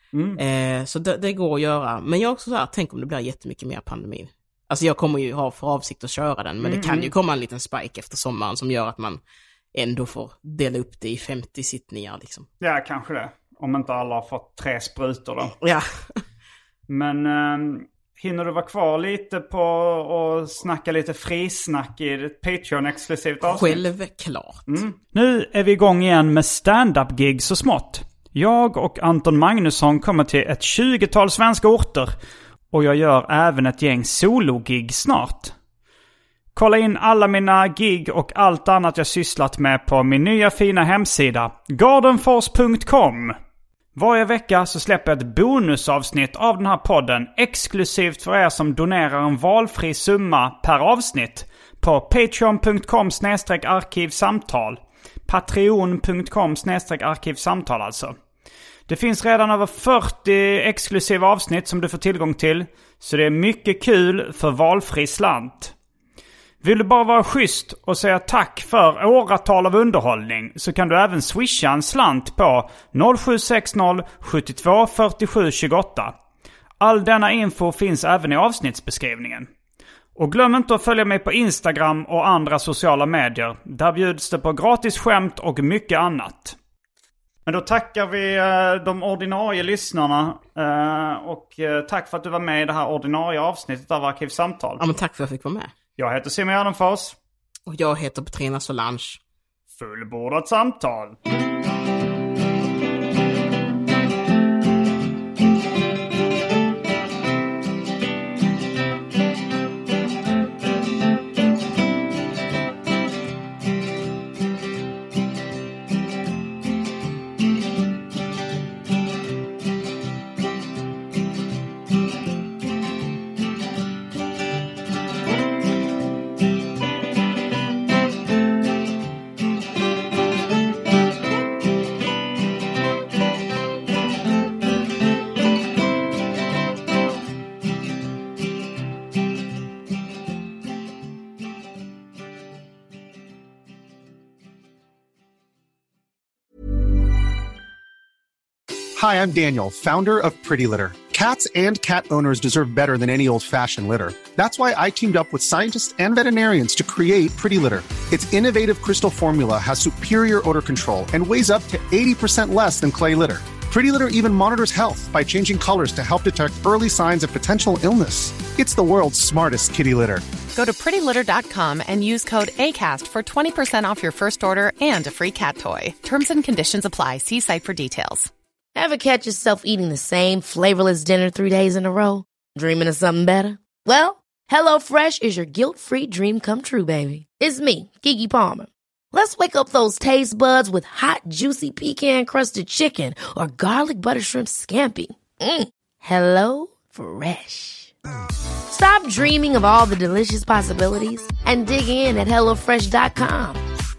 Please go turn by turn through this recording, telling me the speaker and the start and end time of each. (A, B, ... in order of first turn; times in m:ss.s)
0:00.1-0:00.4 A
0:00.4-0:09.2 B
0:06.6-0:07.1 A
0:09.7-0:12.5 B
0:12.6-0:15.5 A
0:15.6-0:16.2 B
0:16.9-0:23.8 A
0:23.4-0:24.6 B
0:24.7-0:32.1 A
0:32.7-0:35.5 A
0:36.5-0:43.3 A
0:44.0-0:58.1 A
0:58.9-1:05.7 A
1:06.6-1:16.1 A
1:16.8-1:19.5 A
1:20.2-1:26.6 A
1:27.4-1:34.8 A
1:34.8-1:35.7 B
1:36.0-1:37.2 A
1:37.7-1:39.2 B
1:39.7-1:41.2 A
2:29.0-2:50.2 C
2:50.6-2:51.6 D
2:52.2-2:53.6 D
2:54.3-2:58.2 D
2:58.8-3:17.9 E
3:18.7-3:23.6 E